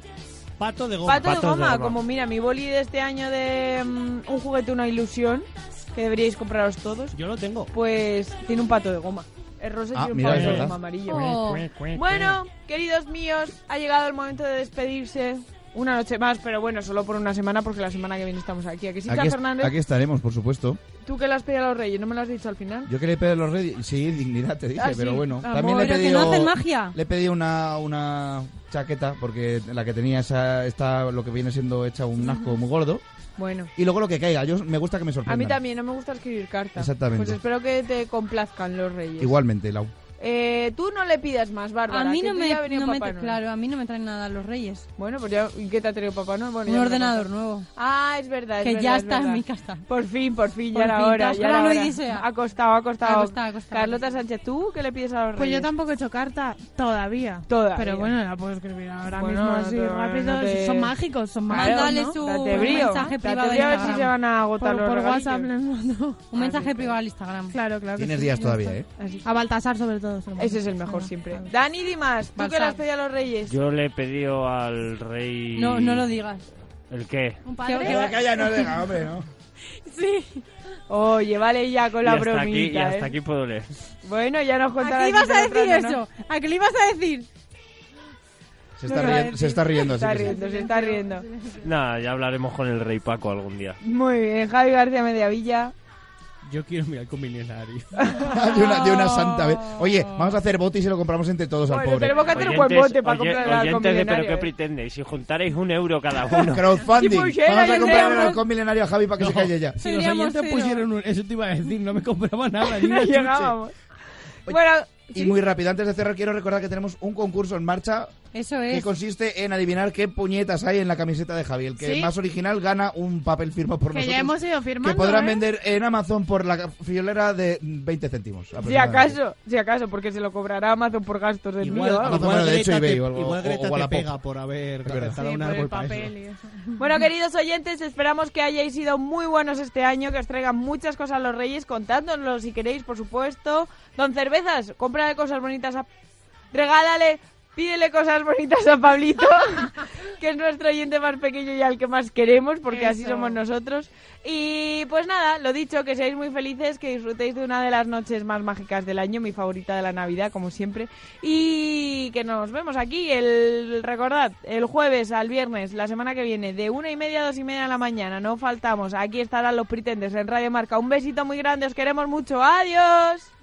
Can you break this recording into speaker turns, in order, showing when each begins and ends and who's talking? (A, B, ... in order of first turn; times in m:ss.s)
0:00.6-0:02.0 A
0:01.0-0:07.2 B
0:07.1-0:07.7 A
0:07.7-0:11.3 B
0:09.9-0:10.8 C
0:10.3-0:12.4 A
0:11.1-0:11.7 D
0:11.9-0:19.7 B
0:19.1-0:20.8 C
0:21.0-0:22.9 B
0:22.9-0:33.0 C
0:24.8-0:26.2 B
0:25.7-0:26.9 D
0:33.4-0:33.7 B
0:33.8-0:35.6 C
0:35.3-0:39.3 B
0:36.8-0:37.4 C
0:39.2-0:39.9 C
0:40.2-0:43.4 B
0:41.9-0:44.8 D
0:45.0-0:55.7 B
0:46.6-0:47.7 D
0:48.6-0:49.8 D
0:50.7-0:52.2 D
0:53.0-0:54.0 D
0:55.4-1:03.2 E
0:57.5-0:58.1 B
0:59.1-1:00.9 B
1:01.5-1:05.5 B
1:01.5-1:04.1 D
1:04.6-1:06.4 E
1:06.3-1:07.6 D
1:06.4-1:06.9 B
1:07.5-1:11.5 E
1:07.9-1:08.9 C
1:09.0-1:09.2 B
1:10.4-1:13.5 B
1:12.4-1:12.8 D
1:13.5-1:16.1 F
1:15.6-1:16.4 D
1:16.9-1:17.4 F
1:17.4-1:18.7 E
1:17.6-1:18.0 D
1:17.8-1:19.3 C
1:19.8-1:20.4 D
1:20.9-1:23.1 B
1:22.0-1:23.7 F
1:24.0-1:26.0 B
1:24.8-1:27.3 D
1:28.8-1:30.4 C
1:28.8-1:31.2 B
1:29.0-1:29.4 D
1:30.2-1:31.6 D
1:31.6-1:33.8 F
1:33.8-1:35.7 B
1:36.4-1:38.2 A
1:38.0-1:39.5 B
1:38.2-1:42.3 C
1:41.7-1:44.5 B
1:42.1-1:46.8 F
1:46.4-1:49.8 C
1:46.9-1:48.4 B
1:47.8-1:48.3 D
1:49.2-1:53.6 A
1:49.8-1:50.8 D
1:52.6-1:53.7 B
1:54.5-1:55.4 B
1:55.1-1:58.2 C
1:58.3-1:58.9 D
1:58.7-2:09.2 C
2:01.8-2:02.1 E
2:03.9-2:05.4 E
2:08.6-2:12.2 B
2:11.6-2:16.1 A
2:12.0-2:14.1 C
2:14.8-2:15.2 C
2:15.2-2:16.8 E
2:16.8-2:25.9 B
2:26.5-2:53.3 B
2:32.7-2:33.3 D